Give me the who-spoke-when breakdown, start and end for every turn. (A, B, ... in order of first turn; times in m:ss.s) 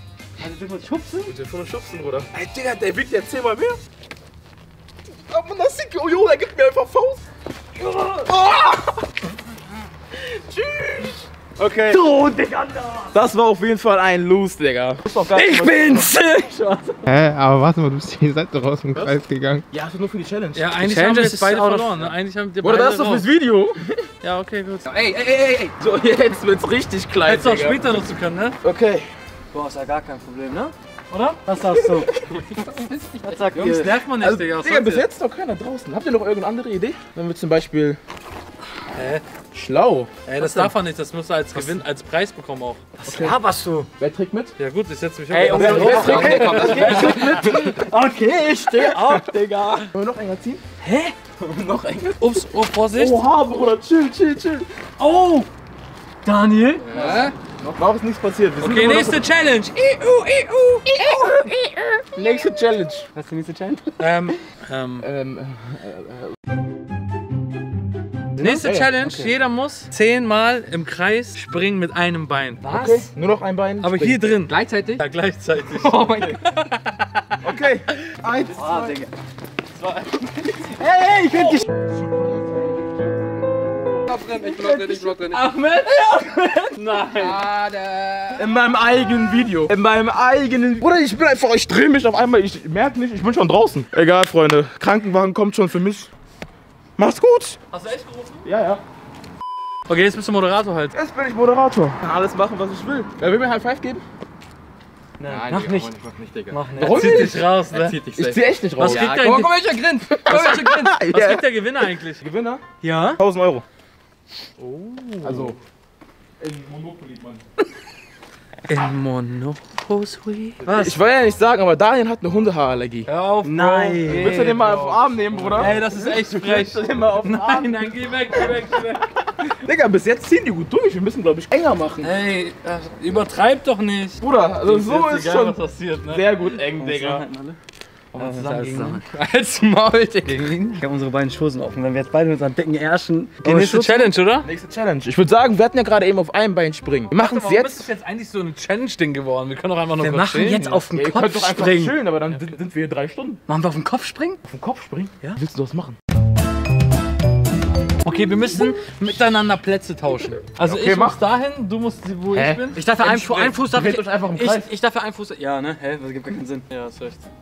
0:00.4-0:01.3 A
0:01.2-0:03.8 B
0:05.3-0:07.2 B
0:07.8-0:09.0 B
0:10.2-0:12.0 B
0:11.9-0:13.2 A
0:13.1-0:16.1 B
0:15.3-0:17.1 A
0:17.1-0:19.6 C
0:18.9-0:20.7 B
0:20.5-0:23.3 D
0:20.8-0:22.1 A
0:22.6-0:24.1 B
0:24.2-0:24.9 D
0:24.9-0:25.8 E
0:25.8-0:27.9 B
0:27.2-0:28.6 D
0:28.6-0:29.1 B
0:29.5-0:30.7 A
0:31.1-0:31.4 D
0:31.4-0:32.1 A
0:32.5-0:33.4 E
0:33.2-0:34.0 A
0:33.6-0:35.0 D
0:34.2-0:38.0 B
0:39.0-0:39.2 D
0:39.5-0:40.1 B
0:40.3-0:42.9 D
0:40.4-0:40.7 A
0:41.5-0:41.8 A
0:43.0-0:43.9 A
0:43.1-0:43.4 B
0:44.0-0:44.6 B
0:44.6-0:47.7 D
0:45.3-0:49.8 A
0:45.5-0:47.6 B
0:45.8-0:47.6 E
0:48.7-0:49.2 B
0:48.9-0:49.9 D
0:49.9-0:50.6 B
0:50.8-0:51.1 A
0:51.4-0:52.4 B
0:52.2-0:53.2 D
0:52.9-0:54.7 B
0:55.0-0:55.5 D
0:55.0-0:55.5 A
0:56.2-0:57.3 A
0:56.9-0:57.4 E
0:56.9-0:59.3 B
0:58.6-1:02.0 D
1:00.9-1:01.4 B
1:02.1-1:03.1 B
1:03.1-1:04.3 A
1:04.0-1:05.1 D
1:05.0-1:06.3 B
1:08.4-1:13.1 D
1:08.5-1:09.0 B
1:12.7-1:14.3 B
1:13.8-1:17.4 D
1:14.5-1:15.0 E
1:15.7-1:16.4 E
1:17.4-1:19.0 B
1:18.5-1:19.1 A
1:19.8-1:20.5 D
1:20.5-1:21.7 A
1:24.1-1:25.5 E
1:24.4-1:25.1 A
1:25.1-1:27.5 D
1:27.2-1:28.5 E
1:28.4-1:36.1 B
1:37.0-1:37.6 B
1:37.7-1:38.5 D
1:38.4-1:38.8 B
1:39.9-1:40.9 D
1:40.9-1:44.0 B
1:45.2-1:45.9 A
1:45.3-1:51.0 E
1:46.5-1:47.1 A
1:46.8-1:47.5 B
1:46.8-1:48.0 D
1:48.2-1:49.2 B
1:48.8-1:49.6 D
1:50.1-1:51.4 B
1:51.0-1:52.2 D
1:52.2-1:52.6 B
1:52.8-1:53.2 A
1:53.2-1:53.6 B
1:54.6-1:55.5 D
1:55.2-1:55.6 B
1:56.4-1:57.4 B
1:58.7-1:59.6 A
1:58.8-2:00.6 D
2:00.5-2:01.0 A
2:00.6-2:03.1 B
2:03.1-2:09.4 D
2:03.4-2:04.5 A
2:04.0-2:08.6 B
2:05.6-2:05.9 A
2:09.4-2:12.1 B
2:12.0-2:16.6 D
2:14.2-2:17.2 B
2:16.8-2:17.6 A
2:18.1-2:20.8 D
2:18.2-2:19.0 A
2:20.8-2:24.1 A
2:23.4-2:24.5 D
2:24.4-2:27.8 B
2:27.1-2:30.8 D
2:30.0-2:32.0 A
2:30.9-2:33.4 B
2:32.3-2:32.5 D
2:33.5-2:34.4 A
2:34.5-2:36.0 B
2:38.0-2:42.9 D
2:40.6-2:41.2 B
2:42.3-2:44.7 B
2:42.7-2:47.2 A